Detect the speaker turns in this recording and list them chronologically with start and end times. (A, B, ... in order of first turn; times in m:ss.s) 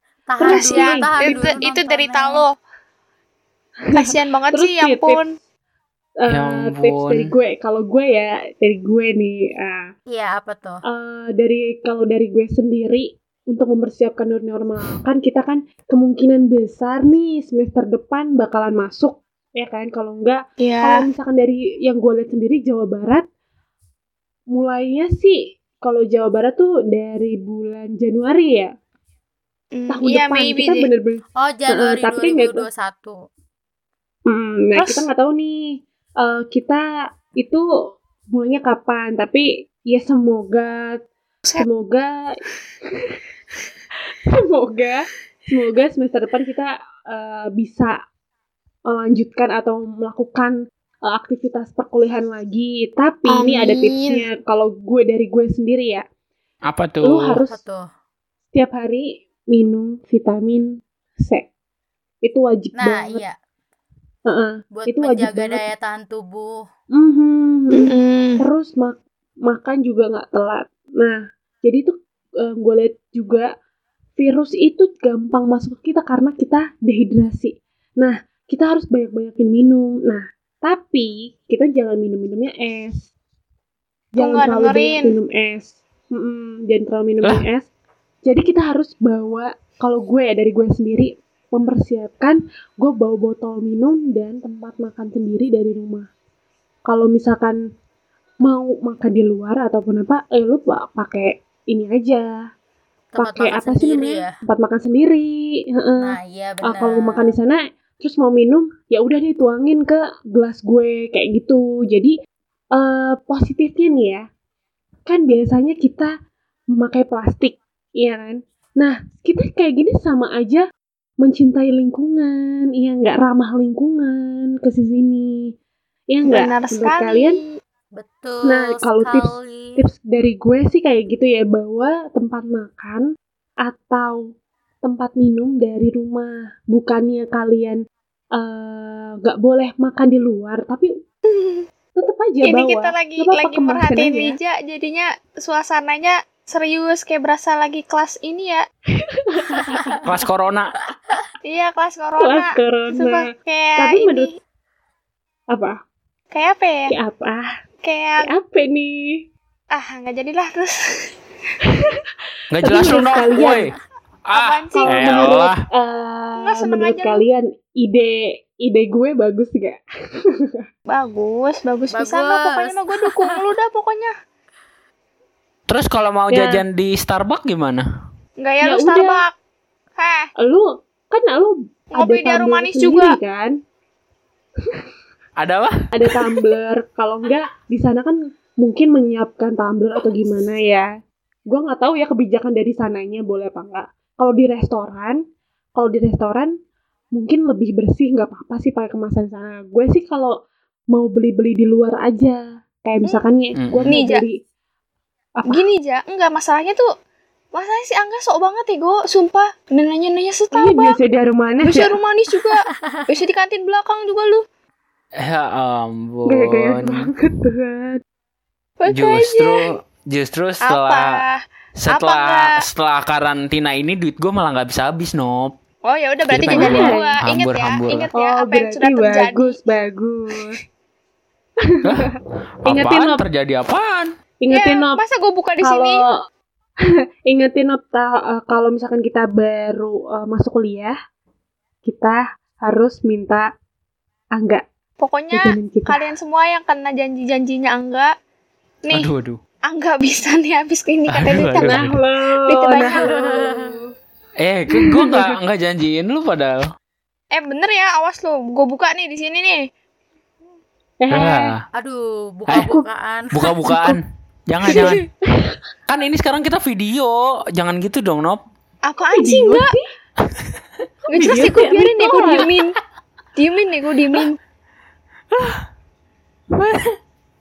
0:00.3-0:02.4 A
0:00.4-0:01.6 B
0:00.4-0:02.5 C
0:03.9-0:05.2 B
0:03.9-0:05.3 C
0:06.2-0:09.9 B
0:06.3-0:07.3 D
0:10.1-0:10.8 A
0:10.8-0:23.3 B
0:20.6-0:21.0 C
0:24.5-0:28.7 B
0:29.7-0:30.9 C
0:29.9-0:32.6 B
0:31.4-0:33.2 A
0:34.3-0:41.0 B
0:34.8-0:35.0 C
0:41.6-0:43.2 B
0:44.2-0:48.0 B
0:48.9-0:56.0 B
0:53.3-0:54.2 C
0:56.7-0:57.4 D
0:57.0-0:57.6 B
0:57.5-0:57.9 A
0:58.5-1:01.4 B
1:02.2-1:03.2 B
1:02.8-1:03.4 A
1:04.2-1:05.6 B
1:04.7-1:06.7 A
1:06.9-1:13.5 B
1:07.7-1:08.4 C
1:14.2-1:23.1 B
1:24.1-1:27.7 B
1:24.2-1:25.1 C
1:28.2-1:36.1 B
1:36.9-1:37.6 B
1:38.4-1:42.4 B
1:43.1-1:44.3 A
1:43.2-1:52.1 B
1:46.0-1:47.3 A
1:52.7-1:54.3 B
1:55.0-1:56.1 B
1:56.7-2:00.6 B
2:01.2-2:05.5 B
2:06.1-2:07.4 B
2:06.2-2:07.5 C
2:07.9-2:09.8 A
2:08.4-2:13.0 B
2:13.6-2:14.3 B
2:14.8-2:17.8 B
2:18.3-2:20.9 B
2:21.3-2:21.6 C
2:21.9-2:24.4 B
2:22.4-2:28.6 C
2:28.9-2:30.2 B
2:30.0-2:30.7 D
2:31.4-2:34.3 C
2:32.2-2:33.2 B
2:33.8-2:34.3 B
2:35.5-2:35.8 B
2:36.3-2:36.9 C
2:36.9-2:37.5 B
2:37.8-2:38.3 C
2:38.2-2:39.2 B
2:39.7-2:41.1 C
2:41.6-2:42.0 B
2:42.5-2:43.7 D
2:42.6-2:43.6 B
2:42.8-2:43.6 C
2:44.2-2:45.6 D
2:44.3-2:45.4 C
2:44.8-2:50.6 B
2:46.4-2:47.2 C
2:50.9-2:54.1 C
2:51.9-2:53.4 A
2:55.7-2:57.8 D
2:56.3-2:56.6 B
2:58.4-2:59.3 C
2:58.6-2:59.2 B
3:00.0-3:00.3 C
3:00.4-3:03.6 B
3:01.9-3:03.2 C
3:05.4-3:05.7 D
3:05.9-3:10.9 B
3:11.5-3:15.2 B
3:15.8-3:16.5 B
3:17.1-3:20.3 B
3:20.9-3:24.4 B
3:23.5-3:23.9 D
3:23.9-3:24.2 C
3:25.4-3:25.6 B
3:25.5-3:26.9 C
3:27.5-3:31.0 C
3:30.5-3:32.0 B
3:31.6-3:34.4 C
3:35.2-3:37.0 D
3:36.3-3:38.0 B
3:38.8-3:39.6 C
3:38.9-3:41.2 D
3:40.6-3:42.6 C
3:41.8-3:45.5 D
3:45.8-3:49.6 C
3:46.3-3:48.1 D
3:46.4-3:47.2 B
3:48.1-3:50.6 B
3:51.6-3:52.1 B
3:51.8-3:52.1 D
3:52.6-3:54.1 D
3:52.6-3:53.2 B
3:54.4-3:55.0 B
3:54.5-3:56.0 C
3:55.6-3:56.2 B
3:57.2-4:01.0 B
4:01.8-4:03.5 B
4:04.3-4:04.6 B
4:05.0-4:08.1 C
4:05.3-4:06.0 B
4:08.8-4:09.1 C
4:08.9-4:09.4 D
4:09.7-4:13.4 C
4:11.1-4:11.9 D
4:11.5-4:13.9 B
4:13.0-4:13.8 A
4:14.4-4:16.7 D
4:14.7-4:15.3 B
4:17.3-4:19.7 C
4:21.0-4:21.5 B
4:21.1-4:21.6 D
4:21.7-4:23.4 A
4:22.5-4:22.8 B
4:23.3-4:25.1 D
4:25.9-4:28.4 D
4:28.9-4:29.7 C
4:29.1-4:29.9 B
4:31.1-4:32.8 C
4:31.1-4:32.5 B
4:33.3-4:34.4 C
4:36.6-4:37.0 D